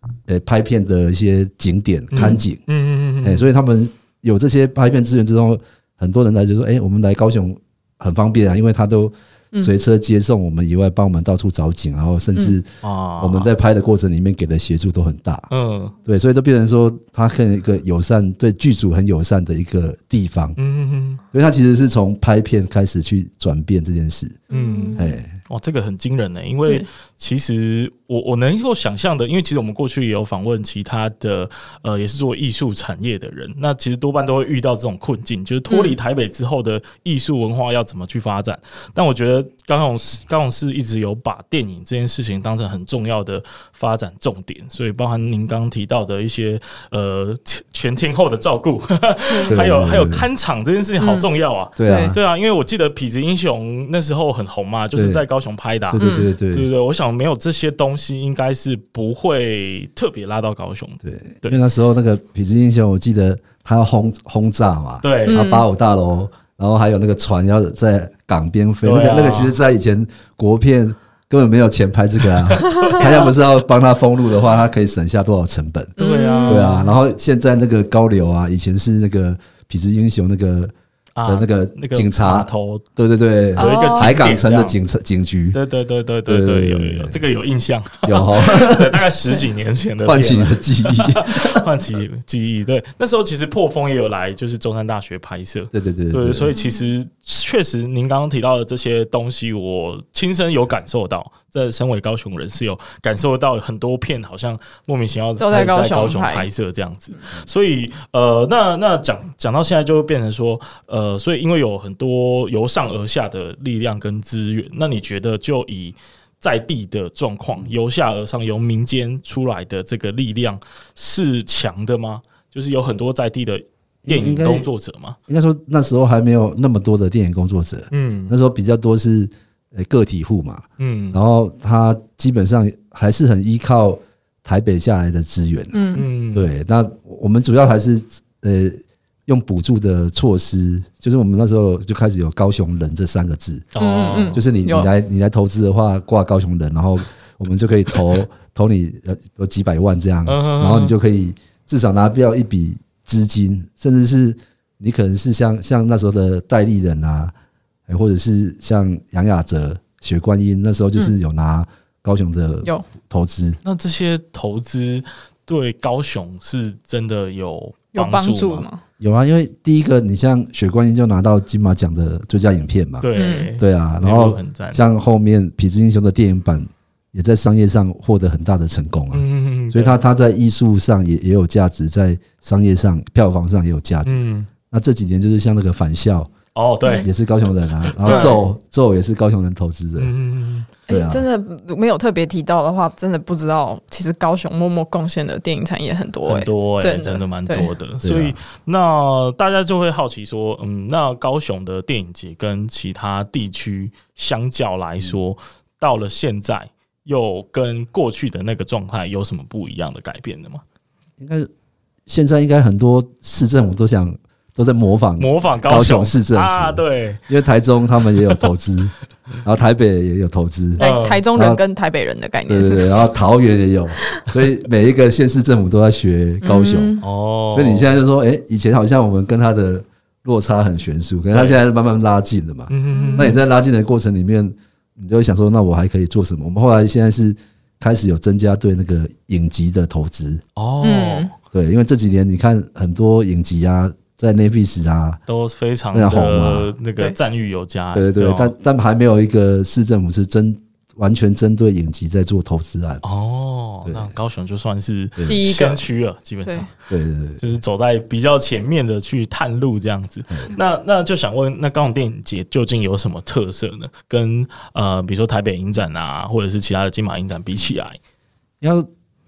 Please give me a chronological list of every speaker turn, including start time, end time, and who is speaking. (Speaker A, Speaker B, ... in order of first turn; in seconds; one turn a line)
Speaker A: 0.3-2.6
Speaker B: 2.1-3.5
Speaker A: 3.2-12.7
Speaker B: 12.8-13.5
Speaker A: 13.2-15.5
Speaker B: 15.5-15.9
Speaker A: 16.1-20.6
Speaker B: 20.6-21.2
Speaker A: 21.3-24.4
Speaker C: 24.5-25.1
Speaker B: 24.5-61.6
Speaker A: 25.0-25.3
Speaker C: 35.7-36.0
Speaker A: 49.5-50.3
Speaker C: 51.0-51.3
Speaker A: 51.8-52.2
Speaker C: 51.8-52.1
Speaker A: 55.0-55.2
Speaker A: 55.9-56.7
Speaker C: 56.0-56.3
Speaker A: 61.0-75.9
Speaker B: 65.0-65.5
Speaker C: 65.3-65.7
Speaker B: 68.8-69.6
Speaker B: 72.5-73.3
Speaker C: 76.0-76.7
Speaker B: 76.0-76.9
Speaker A: 76.5-80.7
Speaker B: 81.2-82.8
Speaker A: 81.3-85.6
Speaker C: 83.6-84.1
Speaker B: 83.6-84.8
Speaker B: 85.5-125.2
Speaker A: 86.3-87.2
Speaker A: 88.0-89.0
Speaker A: 90.0-91.6
Speaker A: 95.7-96.5
Speaker C: 96.5-96.8
Speaker C: 105.4-106.5
Speaker A: 124.0-124.7
Speaker A: 125.3-135.8
Speaker B: 127.9-128.4
Speaker B: 130.8-131.2
Speaker C: 135.7-136.1
Speaker B: 135.9-136.5
Speaker A: 136.3-143.7
Speaker B: 143.7-144.4
Speaker C: 143.8-144.9
Speaker A: 144.3-157.3
Speaker B: 150.3-150.9
Speaker A: 157.9-163.6
Speaker B: 163.6-168.7
Speaker C: 167.9-168.8
Speaker A: 169.0-173.1
Speaker B: 173.0-174.8
Speaker C: 173.2-173.5
Speaker A: 173.6-186.3
Speaker B: 179.1-180.0
Speaker B: 184.1-184.5
Speaker B: 186.6-187.1
Speaker C: 186.8-187.1
Speaker A: 187.0-190.1
Speaker B: 187.8-188.4
Speaker C: 188.1-188.4
Speaker B: 190.0-190.7
Speaker A: 190.9-191.2
Speaker C: 190.9-197.7
Speaker B: 196.3-210.6
Speaker A: 198.0-198.4
Speaker A: 211.2-211.5
Speaker A: 212.1-221.6
Speaker B: 215.2-217.2
Speaker C: 220.8-223.0
Speaker B: 220.8-221.2
Speaker A: 222.5-227.0
Speaker C: 226.4-227.0
Speaker B: 227.0-227.9
Speaker A: 227.5-240.4
Speaker B: 231.3-231.6
Speaker B: 232.7-233.4
Speaker C: 232.9-233.3
Speaker B: 240.6-241.3
Speaker C: 240.8-241.3
Speaker A: 241.5-245.2
Speaker B: 245.3-248.5
Speaker A: 245.9-246.7
Speaker A: 247.9-253.0
Speaker B: 253.0-256.7
Speaker A: 253.9-254.1
Speaker C: 255.3-255.8
Speaker A: 256.9-257.4
Speaker B: 257.4-268.0
Speaker A: 268.6-268.9